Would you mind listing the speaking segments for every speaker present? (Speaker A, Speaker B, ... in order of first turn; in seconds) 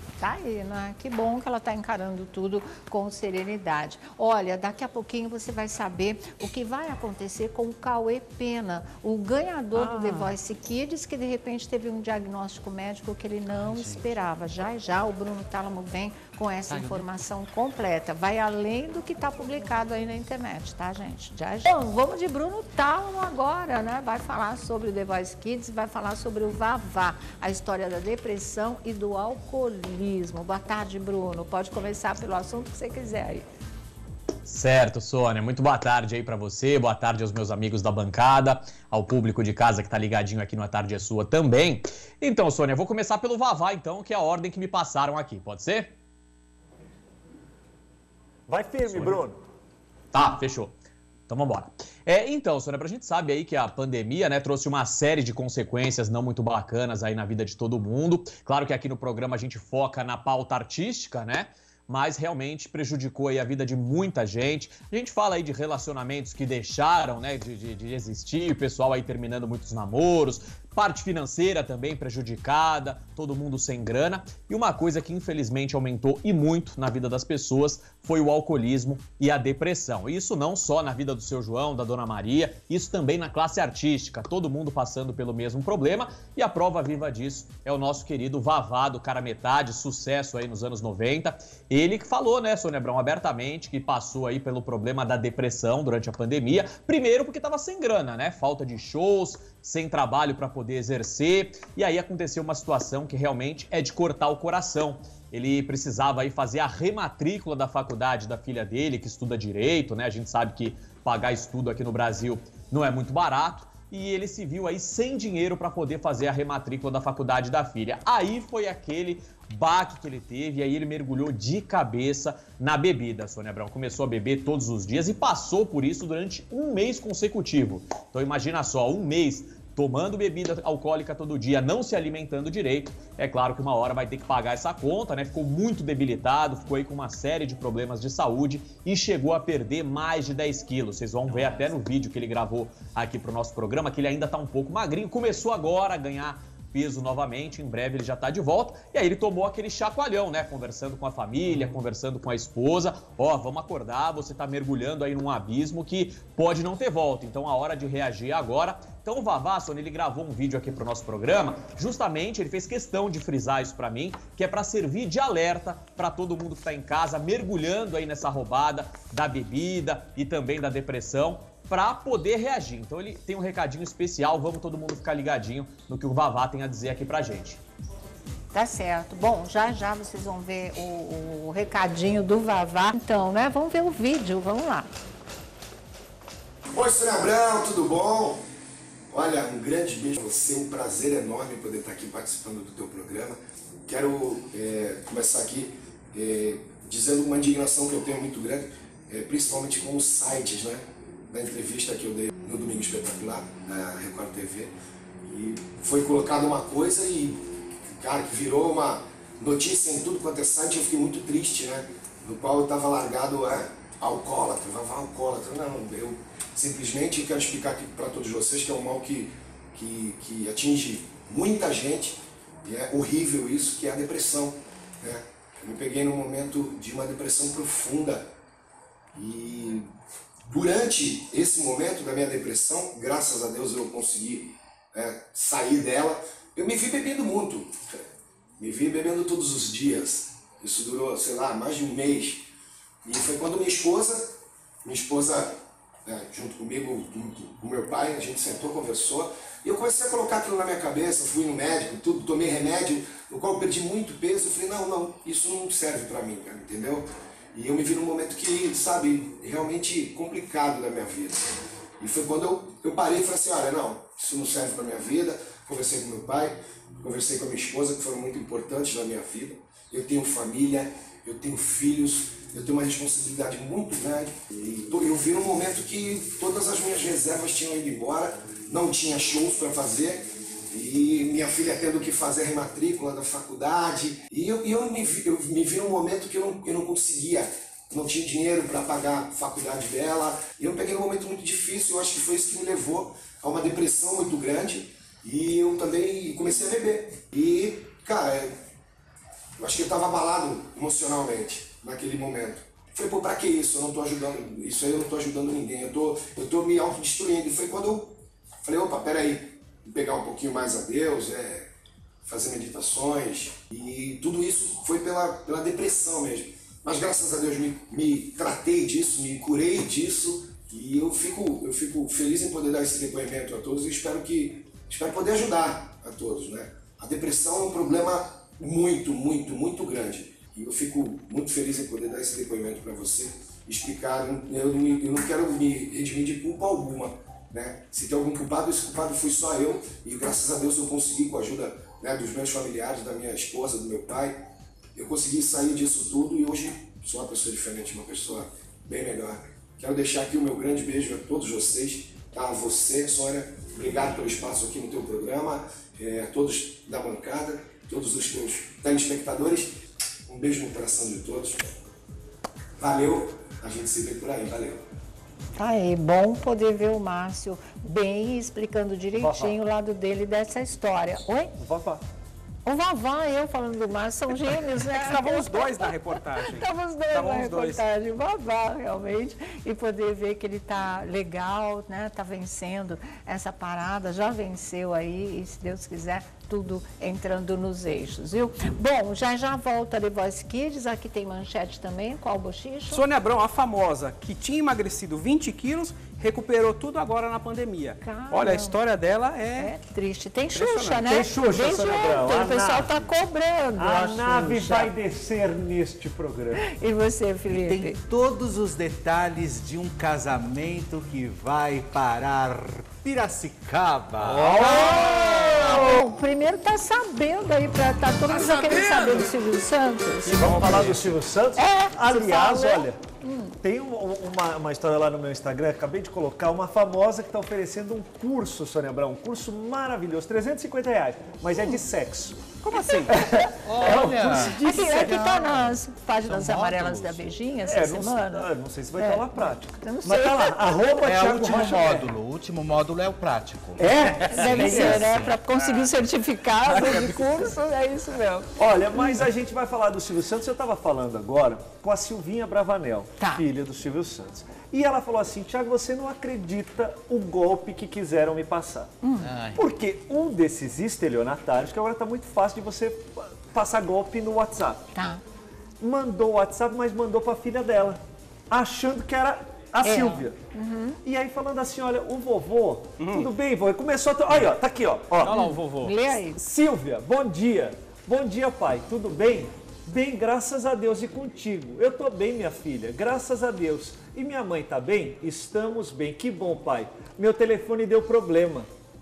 Speaker A: 0.2-33.5, 178.5-184.9, 365.5-371.5, 372.6-393.0, 398.0-398.8, 399.6-404.9, 406.6-407.9, 414.6-420.8, 421.6-423.5, 434.4-439.2, 439.8-440.9, 444.3-449.2, 459.0-459.3, 464.9-465.2, 469.8-471.0, 475.3-476.4
Speaker B: 13.6-14.1, 16.7-17.0, 407.5-415.8, 433.6-437.2, 441.0-445.4, 459.2-459.6
Speaker C: 34.5-45.9, 50.1-50.8, 51.3-177.6
Speaker D: 48.5-49.4, 369.2-369.6, 371.6-372.0, 401.0-403.1, 403.8-406.7, 414.3-415.9, 420.2-423.0, 423.6-432.5, 433.1-434.6, 437.6-442.1, 443.8-445.1, 448.6-458.9, 459.6-464.9, 465.8-470.4, 471.0-475.5, 476.4-488.7
Speaker E: 186.7-188.4, 189.1-228.3, 229.1-229.9, 230.4-238.1, 238.6-242.5, 243.0-298.6, 299.6-311.7, 312.2-344.4, 344.9-359.7, 360.3-361.7, 362.8-364.8
Speaker F: 374.9-377.8, 392.9-399.7, 400.5-401.0, 414.3-414.6, 420.4-421.1, 432.6-433.2, 441.6-441.9, 444.4-445.0, 446.7-447.4, 473.0-473.3, 475.2-476.0